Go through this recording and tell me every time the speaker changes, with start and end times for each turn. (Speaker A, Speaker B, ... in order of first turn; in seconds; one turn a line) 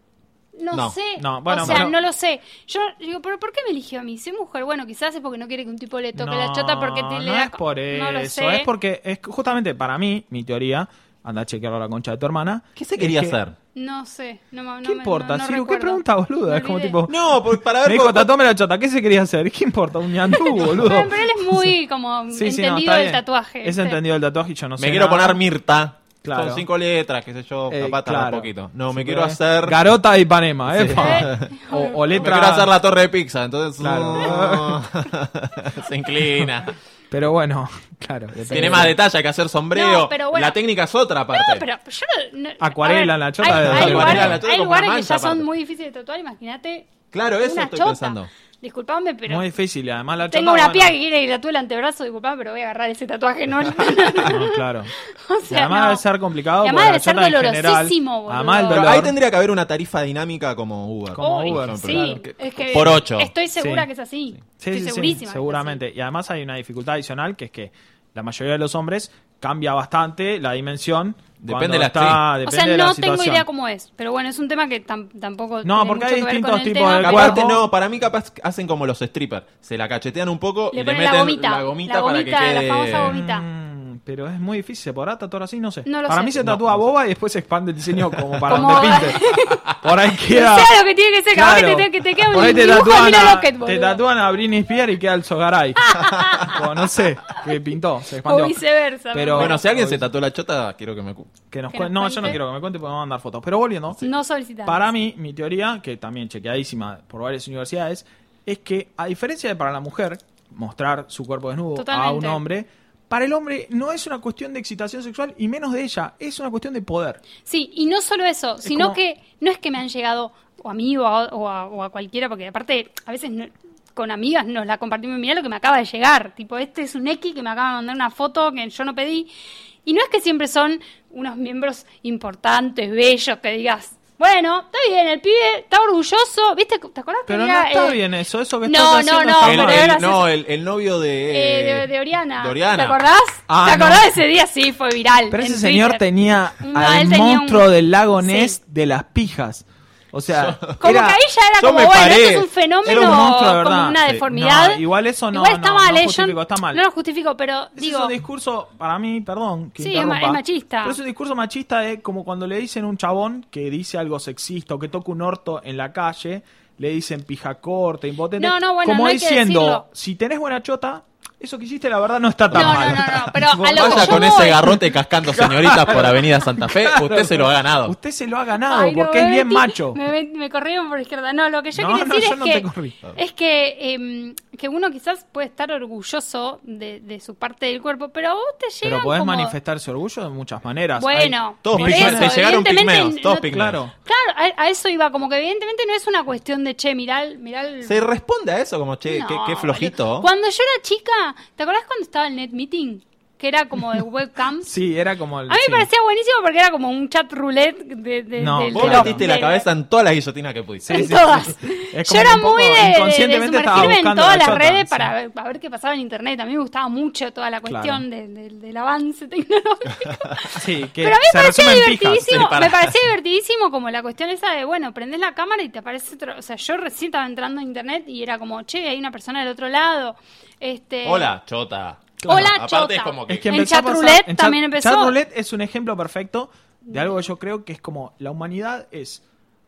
Speaker A: 0.6-8.7
Speaker B: 1.2-2.0
Speaker C: 1.6-1.9
Speaker B: 6.2-13.4
Speaker C: 12.8-13.6
Speaker A: 13.8-17.0
Speaker B: 14.8-21.7
Speaker C: 17.1-18.3
Speaker A: 20.3-24.0
Speaker B: 22.3-25.4
Speaker C: 24.8-29.9
Speaker B: 26.2-26.7
Speaker B: 27.7-32.7
Speaker C: 30.7-36.7
Speaker A: 30.9-32.1
Speaker B: 33.8-34.8
Speaker B: 37.1-39.0
Speaker C: 38.5-41.6
Speaker A: 38.5-38.8
Speaker A: 39.7-40.6
Speaker A: 41.3-49.5
Speaker B: 42.6-44.4
Speaker C: 43.5-45.5
Speaker C: 47.1-48.3
Speaker B: 49.3-51.0
Speaker A: 50.3-56.0
Speaker C: 53.8-54.1
Speaker B: 54.2-54.9
Speaker B: 55.5-59.1
Speaker A: 56.6-58.9
Speaker C: 58.7-63.3
Speaker B: 61.2-62.2
Speaker A: 61.2-65.8
Speaker B: 63.6-63.9
Speaker B: 64.6-73.5
Speaker C: 71.4-72.2
Speaker A: 72.5-77.4
Speaker B: 75.6-77.7
Speaker C: 77.0-83.2
Speaker A: 80.7-83.4
Speaker B: 83.0-89.2
Speaker A: 85.9-86.4
Speaker C: 86.4-86.8
Speaker C: 88.1-89.0
Speaker A: 88.5-89.7
Speaker B: 89.8-90.7
Speaker A: 90.2-94.0
Speaker B: 91.3-98.6
Speaker A: 95.8-96.7
Speaker A: 98.2-99.6
Speaker B: 99.1-100.1
Speaker C: 99.3-101.3
Speaker B: 101.5-104.0
Speaker A: 101.7-102.4
Speaker A: 104.0-104.9
Speaker B: 104.7-117.2
Speaker A: 111.8-112.4
Speaker A: 117.5-129.3
Speaker B: 118.6-119.0
Speaker A: 129.8-138.0
Speaker B: 137.3-139.9
Speaker A: 138.7-140.3
Speaker C: 139.4-143.0
Speaker A: 141.3-146.0
Speaker B: 143.5-144.1
Speaker B: 145.3-151.2
Speaker A: 146.6-147.7
Speaker A: 148.2-148.6
Speaker C: 150.3-150.9
Speaker A: 150.8-158.1
Speaker C: 151.6-153.0
Speaker B: 152.8-156.8
Speaker B: 157.8-180.0
Speaker A: 159.8-161.0
Speaker A: 168.4-169.8
Speaker A: 172.5-174.8
Speaker C: 172.5-177.9
Speaker A: 178.6-189.6
Speaker B: 181.7-183.0
Speaker B: 188.8-192.4
Speaker A: 191.0-198.1
Speaker C: 191.6-193.8
Speaker B: 193.5-193.9
Speaker C: 197.8-200.3
Speaker A: 199.1-204.7
Speaker B: 204.6-205.9
Speaker A: 205.5-209.7
Speaker B: 208.4-209.2
Speaker C: 208.7-211.2
Speaker B: 210.9-215.1
Speaker A: 210.9-231.3
Speaker B: 217.7-218.0
Speaker B: 220.5-222.3
Speaker C: 222.1-223.1
Speaker C: 231.1-233.6
Speaker B: 232.2-232.6
Speaker A: 232.3-235.2
Speaker B: 233.3-239.2
Speaker A: 236.9-237.2